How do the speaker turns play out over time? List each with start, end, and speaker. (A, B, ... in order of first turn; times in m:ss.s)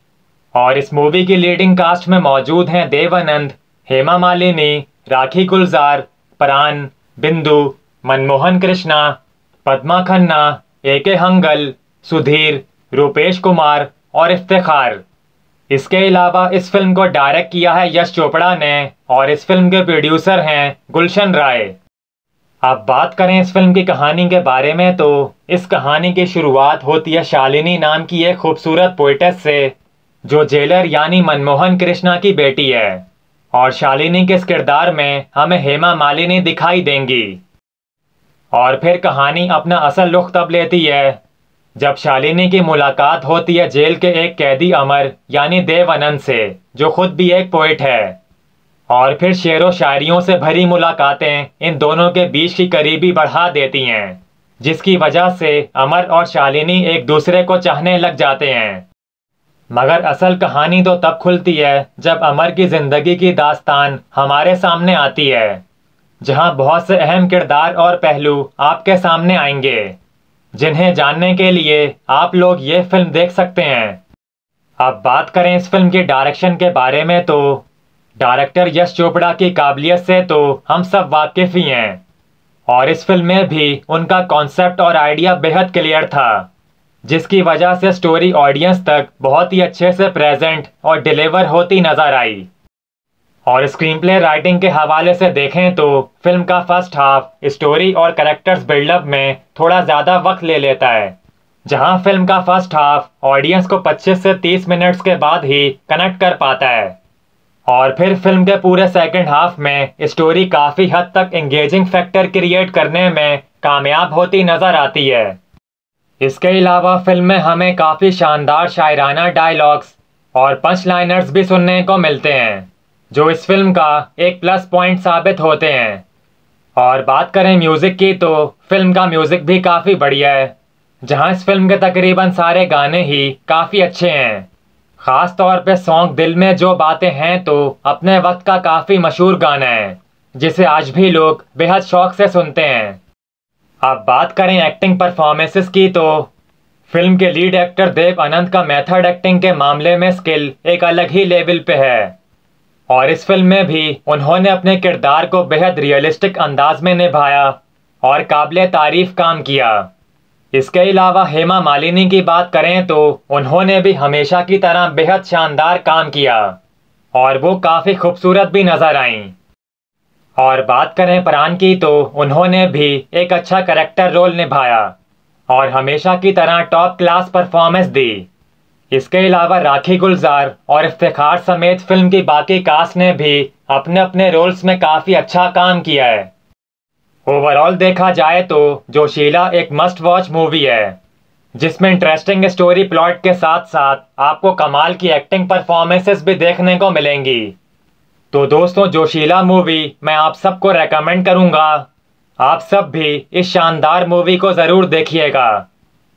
0:00.5-0:15.0 A
0:15.7-0:21.8 A
0:22.6-0:37.4 A
0:38.5-0:41.2 A
0:41.8-0:48.2 A
0:48.9-0:58.8 A
0:59.7-1:05.6 A
1:06.2-1:10.0 A
1:10.5-1:14.0 A
1:14.8-1:17.6 A
1:18.2-1:22.0 A
1:22.7-1:26.5 A
1:27.0-1:32.5 A
1:33.4-1:41.2 A
1:41.7-1:47.0 A
1:47.7-1:55.4 A
1:56.2-2:06.0 A
2:06.8-2:10.5 A
2:11.0-2:14.5 A
2:15.0-2:23.0 A
2:23.8-2:26.3 A
2:26.9-2:32.1 A
2:32.9-2:39.9 A
2:40.5-2:46.6 A
2:47.1-2:49.3 A
2:50.4-2:54.9 A
2:55.5-2:58.3 A
2:58.9-3:06.3 A
3:07.3-3:11.0 A
3:11.6-3:17.5 A
3:18.3-3:21.9 A
3:22.4-3:25.6 A